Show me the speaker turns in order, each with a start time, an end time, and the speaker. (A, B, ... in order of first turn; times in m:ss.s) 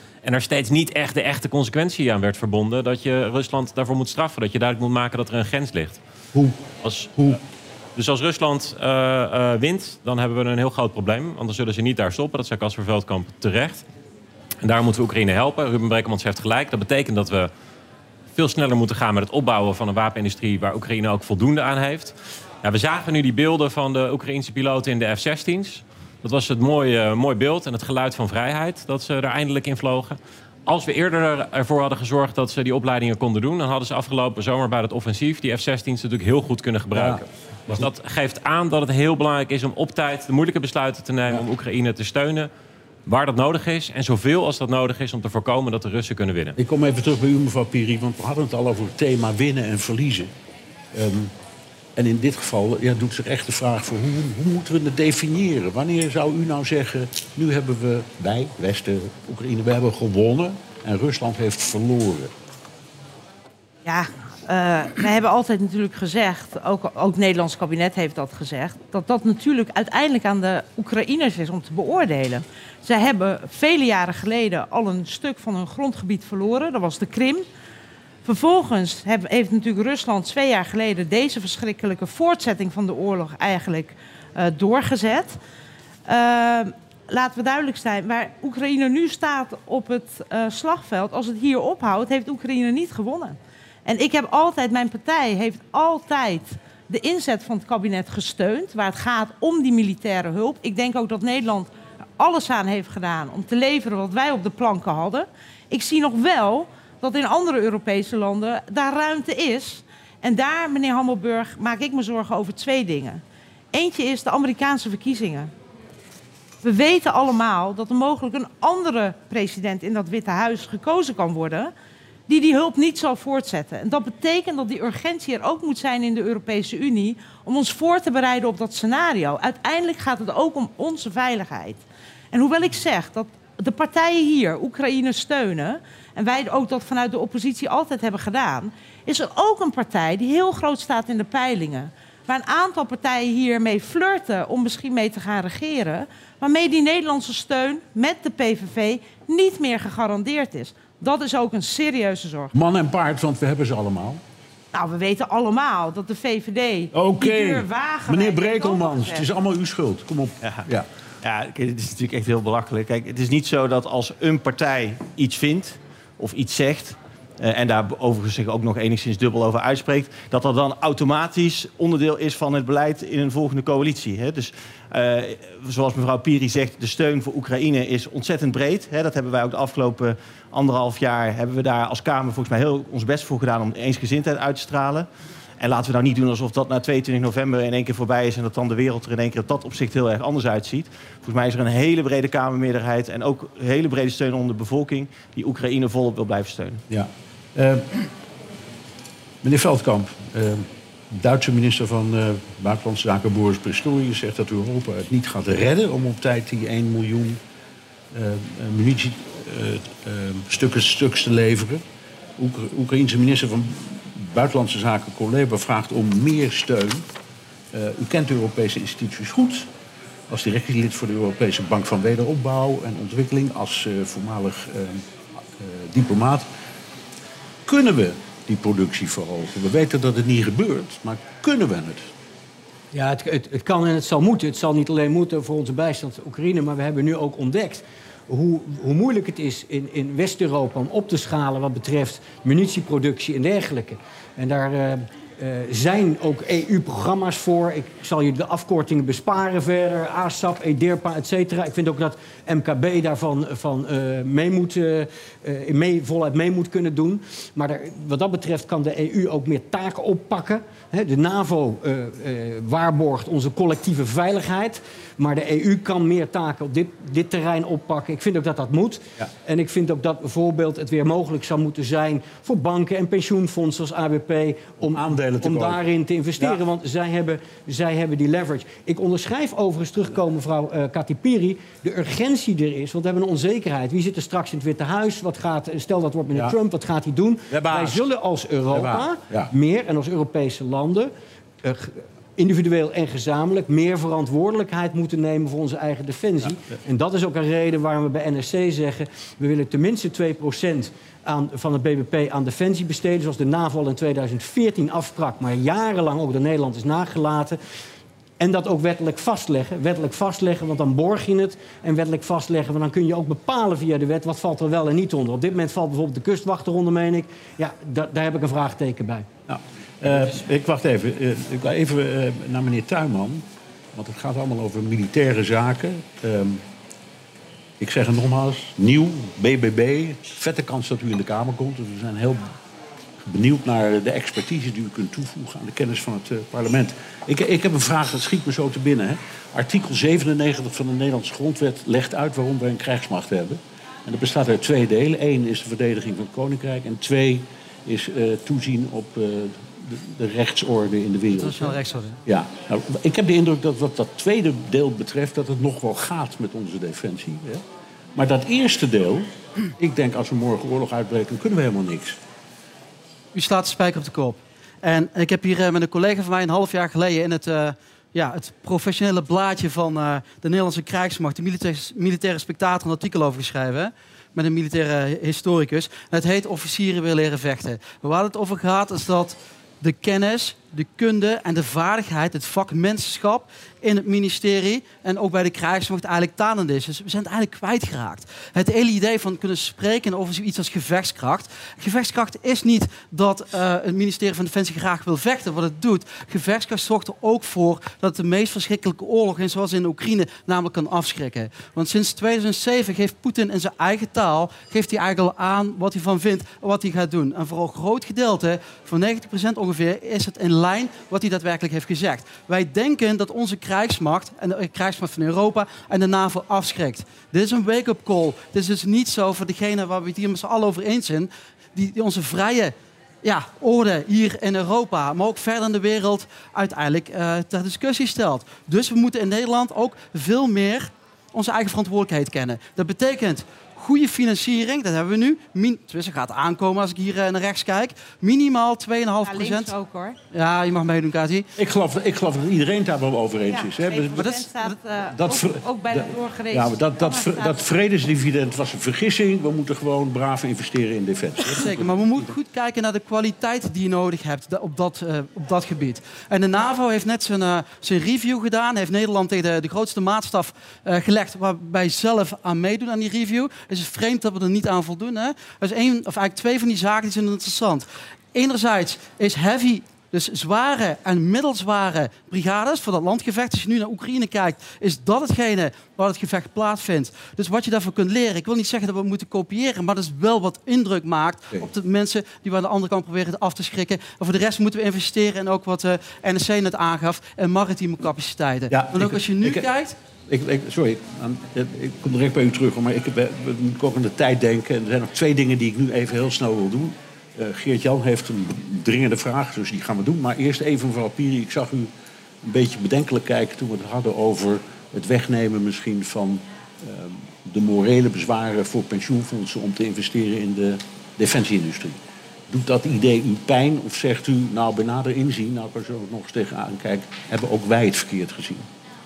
0:00.2-0:06.0 A
0:06.8-0:07.1 A
0:08.0-0:13.8 A
0:14.6-0:17.5 A
0:18.3-0:42.5 A
0:36.9-0:37.9 B
0:43.0-0:46.6 A
0:46.6-0:50.3 B
0:50.9-0:51.3 B
0:52.0-1:02.3 B
1:03.8-1:17.4 C
1:18.2-1:25.4 C
1:26.0-1:55.5 C
1:56.6-2:01.7 C
2:02.3-2:11.8 C
2:12.3-2:32.5 C
2:32.5-2:34.2 B
2:34.7-2:39.2 C
2:36.9-2:40.8 B
2:41.2-3:05.1 D
3:05.6-3:16.8 D
3:16.9-3:17.8 B
3:19.4-3:27.4 B
3:28.1-3:31.8 B
3:32.4-3:37.0 B
3:37.7-3:39.7 B
3:40.3-3:45.0 B
3:45.6-3:46.5 B
3:47.7-3:52.1 B
3:52.9-5:07.6 E
4:34.9-4:35.8 B
4:47.5-4:48.0 B
4:48.7-4:49.5 B
5:08.4-5:19.3 E
5:19.5-5:26.6 B
5:27.8-5:32.4 B
5:33.2-5:57.6 B
5:51.3-5:52.2 F
5:58.1-6:02.2 B
6:03.3-7:19.7 F
7:19.2-7:20.2 C
7:20.3-7:21.5 F
7:21.6-7:24.3 B
7:23.5-7:27.7 C
7:24.2-7:24.7 F
7:25.1-7:32.2 B
7:31.5-8:09.9 F
8:08.7-8:09.7 B
8:10.3-8:21.9 B
8:22.4-8:32.0 B
8:32.5-8:38.6 B